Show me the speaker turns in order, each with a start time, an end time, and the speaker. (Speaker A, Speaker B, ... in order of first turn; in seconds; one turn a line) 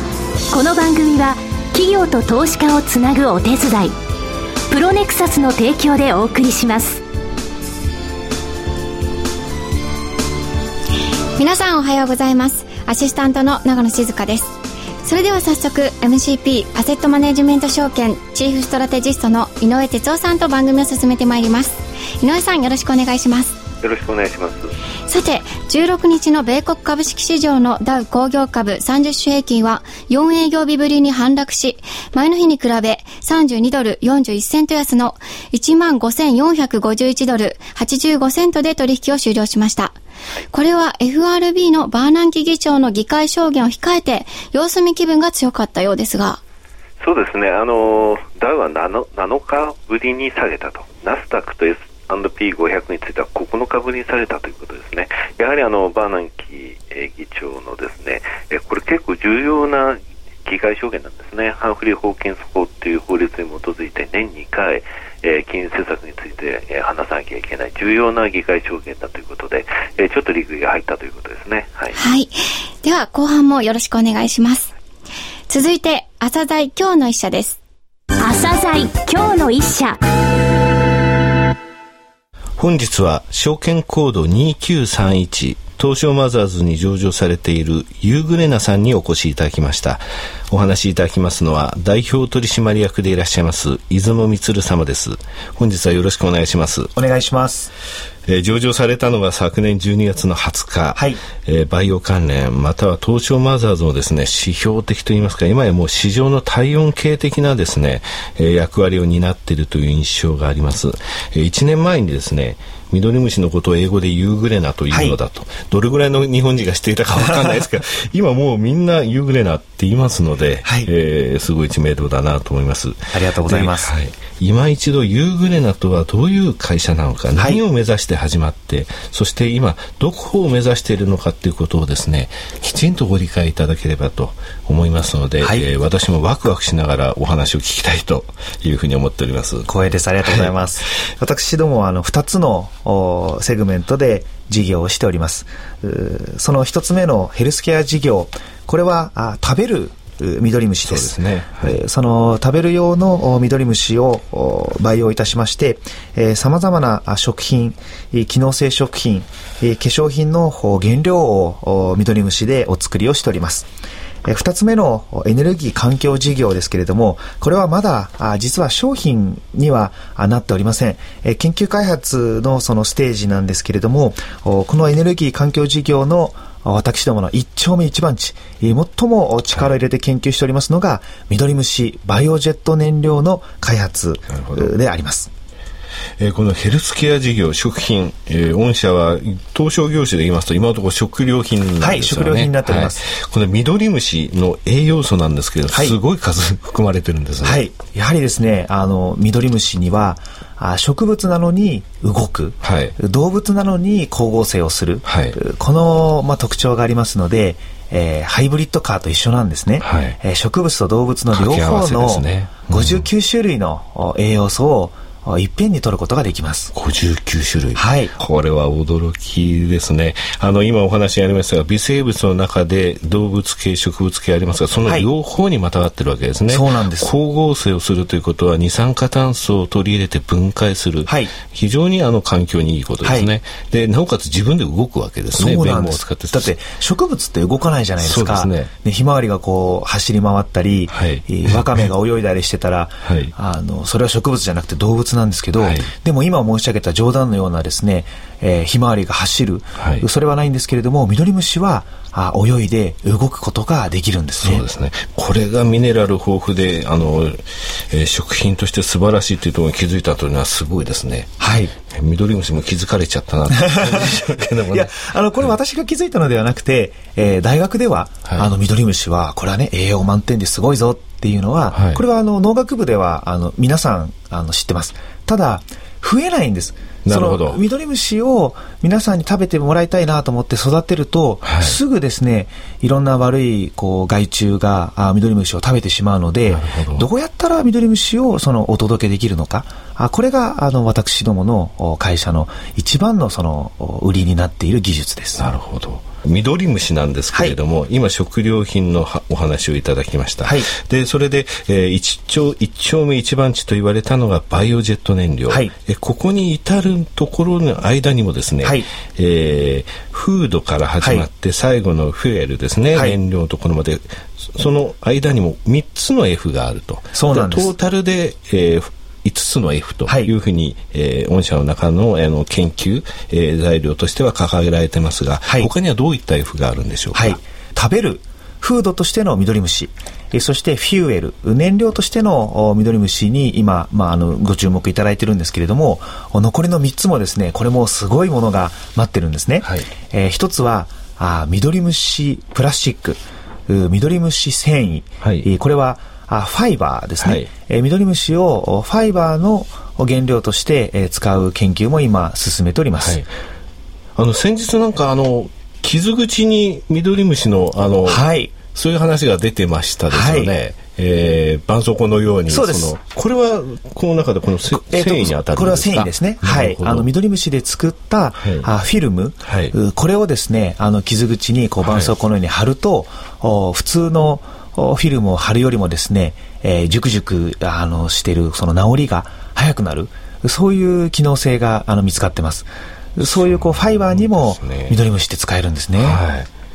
Speaker A: 0.5-3.9
Speaker A: 4.7-7.0
Speaker B: 11.4-23.6
Speaker C: 23.8-24.7
Speaker B: 25.1-40.0
Speaker B: 40.5-46.4
Speaker C: 47.0-72.0
Speaker B: 71.9-74.7
Speaker B: 75.5-77.6
Speaker A: 78.2-80.0
Speaker D: 82.6-96.9
Speaker E: 97.0-97.7
Speaker D: 98.3-139.7
Speaker E: 114.9-115.2
Speaker E: 117.2-117.5
Speaker E: 120.6-120.9
Speaker E: 123.1-123.9
Speaker E: 127.3-127.6
Speaker E: 135.4-135.7
Speaker E: 139.7-163.7
Speaker D: 140.2-140.5
Speaker D: 150.8-151.8
Speaker E: 164.2-185.3
Speaker D: 184.3-184.7
Speaker D: 186.2-197.6
Speaker E: 191.8-193.1
Speaker E: 195.7-196.0
Speaker E: 197.4-216.7
Speaker D: 202.6-203.0
Speaker D: 205.0-205.4
Speaker D: 209.8-210.2
Speaker D: 211.3-213.1
Speaker D: 216.7-236.5
Speaker E: 217.7-218.2
Speaker E: 226.5-227.1
Speaker E: 231.1-231.3
Speaker E: 233.0-233.3
Speaker E: 235.3-254.7
Speaker D: 238.0-238.7
Speaker D: 240.9-241.9
Speaker D: 243.0-243.3
Speaker D: 245.6-245.9
Speaker D: 249.8-250.0
Speaker D: 254.4-261.4
Speaker E: 261.4-261.7
Speaker D: 261.9-265.5
Speaker E: 263.6-295.4
Speaker D: 271.7-272.0
Speaker D: 277.0-277.6
Speaker D: 281.4-281.8
Speaker D: 286.5-287.1
Speaker D: 295.4-327.4
Speaker E: 297.3-297.6
Speaker E: 300.4-300.7
Speaker E: 308.6-308.9
Speaker E: 311.0-311.3
Speaker E: 317.1-317.7
Speaker E: 325.4-325.7
Speaker E: 327.1-353.2
Speaker D: 339.6-339.9
Speaker D: 345.2-345.5
Speaker D: 347.2-347.5
Speaker D: 353.0-353.3
Speaker D: 354.1-367.1
Speaker E: 358.0-358.6
Speaker E: 360.1-360.5
Speaker E: 362.5-362.9
Speaker E: 364.7-386.2
Speaker D: 368.4-368.7
Speaker D: 369.4-369.7
Speaker D: 371.8-372.1
Speaker D: 383.2-385.0
Speaker D: 386.0-386.5